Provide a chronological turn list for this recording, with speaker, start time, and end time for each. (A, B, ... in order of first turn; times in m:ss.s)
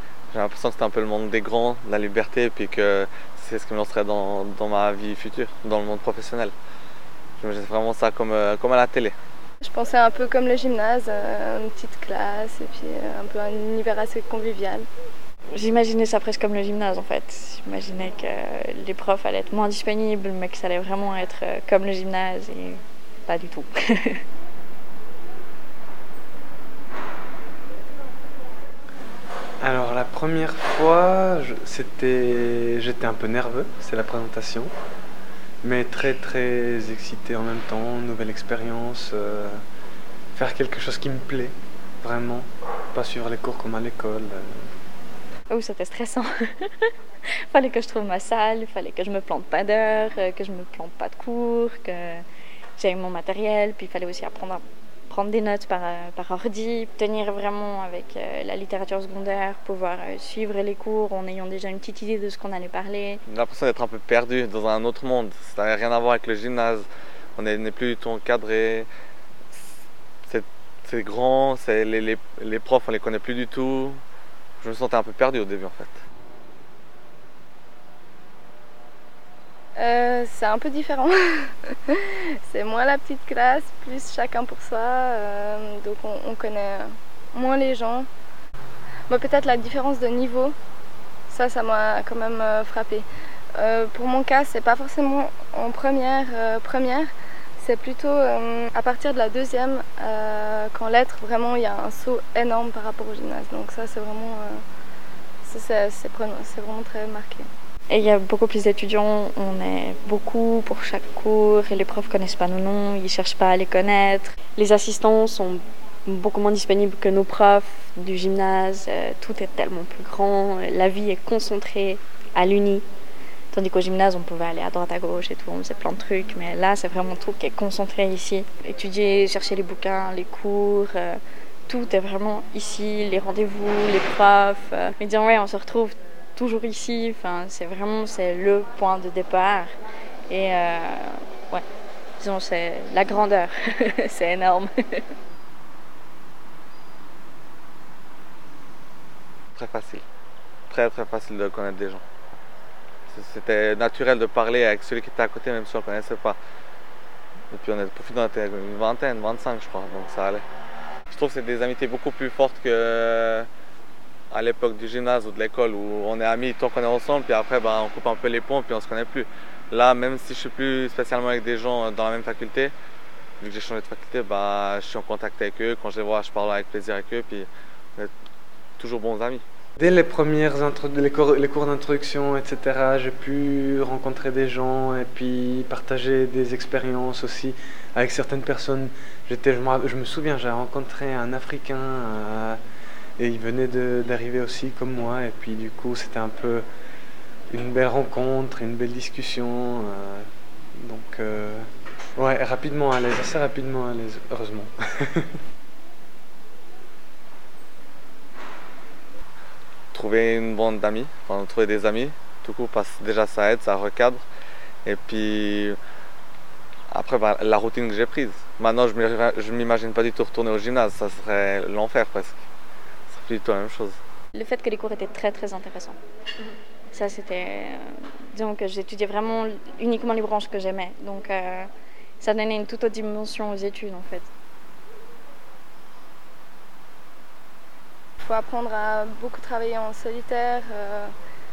0:00.3-0:06.5 A
0:07.4-0:09.1 A
0:09.6-0:14.8 B
0:15.5-0:24.2 C
0:29.6-0:34.7 D
0:35.6-0:39.6 D
0:40.3-0:44.7 D
0:45.5-0:46.9 C
0:47.5-0:52.2 C
0:52.8-1:03.2 C
1:03.3-1:08.9 A
1:10.2-1:14.0 A
1:14.6-1:16.0 A
1:19.8-1:28.1 B
1:29.1-1:30.5 B
1:31.3-1:37.1 B
1:37.6-1:44.6 B
1:45.4-1:47.5 B
1:47.9-2:02.8 C
2:03.5-2:19.7 C
2:20.3-2:21.6 C
2:22.2-2:25.1 C
2:29.6-2:30.0 A
2:30.7-2:32.0 A
2:33.1-2:36.4 A
2:37.5-2:40.4 A
2:41.1-2:43.5 A
2:44.3-2:52.7 A
2:53.4-2:58.1 A
2:58.8-2:59.4 A
2:59.8-3:12.6 D
3:13.2-3:16.6 D
3:17.5-3:25.3 D
3:29.9-3:34.2 A
3:34.8-3:35.8 A
3:36.9-3:42.4 A
3:43.1-3:44.0 A
3:44.3-3:46.0 C
3:46.9-3:51.7 C
3:52.2-3:54.3 C
3:58.2-4:01.1 B